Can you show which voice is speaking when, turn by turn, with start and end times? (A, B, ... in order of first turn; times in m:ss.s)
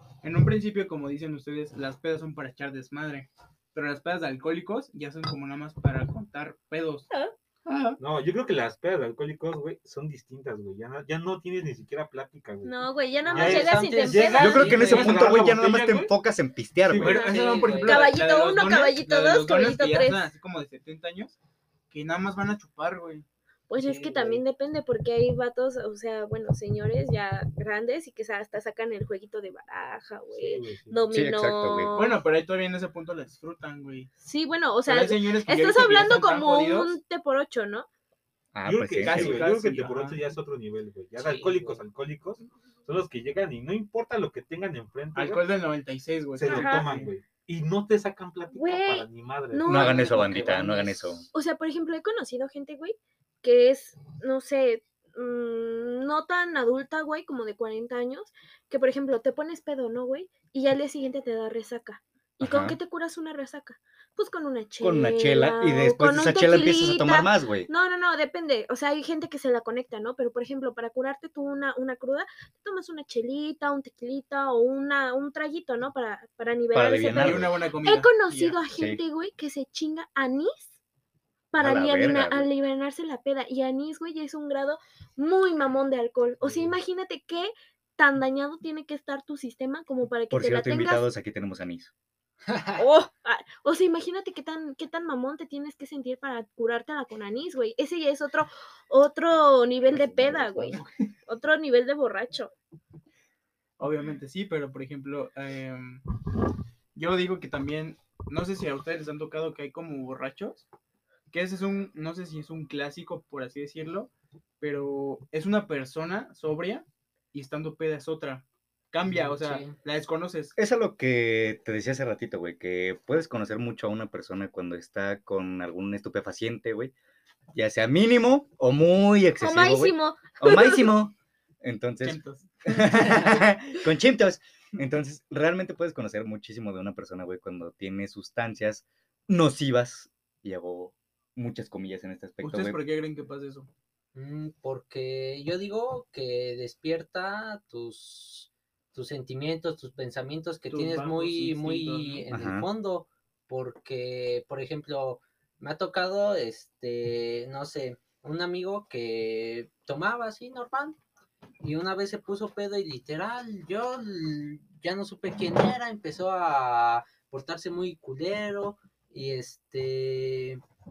0:00.2-0:07.1 A
0:07.6-0:08.0 A
0:08.0-0:12.7 B
0:12.6-0:14.8 C
0:13.2-0:15.3 D
0:13.3-0:16.1 B
0:14.4-0:17.2 E
0:16.8-0:17.6 B
0:17.0-0:21.4 A
0:17.0-0:20.3 C
0:17.3-0:18.1 D
0:21.9-0:23.2 A
0:23.7-0:32.2 C
0:23.8-0:24.4 D
0:30.3-0:31.0 B
0:31.1-0:31.9 E
0:31.9-0:34.1 A
0:34.2-0:37.9 C
0:34.9-0:37.0 A
0:38.5-0:39.4 E
0:38.6-0:45.5 B
0:39.0-0:40.2 A
0:41.2-0:41.8 D
0:45.1-0:47.1 A
0:46.3-0:49.9 B
0:46.4-0:46.9 C
0:48.5-0:50.2 C
0:49.6-0:51.3 E
0:49.9-0:51.2 D
0:51.3-1:20.7 C
1:02.4-1:02.8 E
1:04.8-1:07.7 E
1:16.7-1:17.5 E
1:17.1-1:18.6 A
1:18.7-1:19.0 E
1:21.5-1:31.1 C
1:21.6-1:22.5 E
1:26.4-1:26.7 B
1:30.3-1:31.9 E
1:32.5-1:32.8 D
1:32.8-1:42.5 C
1:40.6-1:40.9 A
1:43.8-1:46.0 A
1:46.9-1:50.6 A
1:51.3-2:00.6 A
1:59.0-1:59.8 D
2:00.6-2:06.9 E
2:07.5-2:22.8 E
2:09.4-2:10.9 C
2:12.0-2:13.2 A
2:22.4-2:23.7 A
2:24.1-2:41.0 D
2:30.7-2:32.3 A
2:32.3-2:32.7 E
2:41.6-2:50.6 D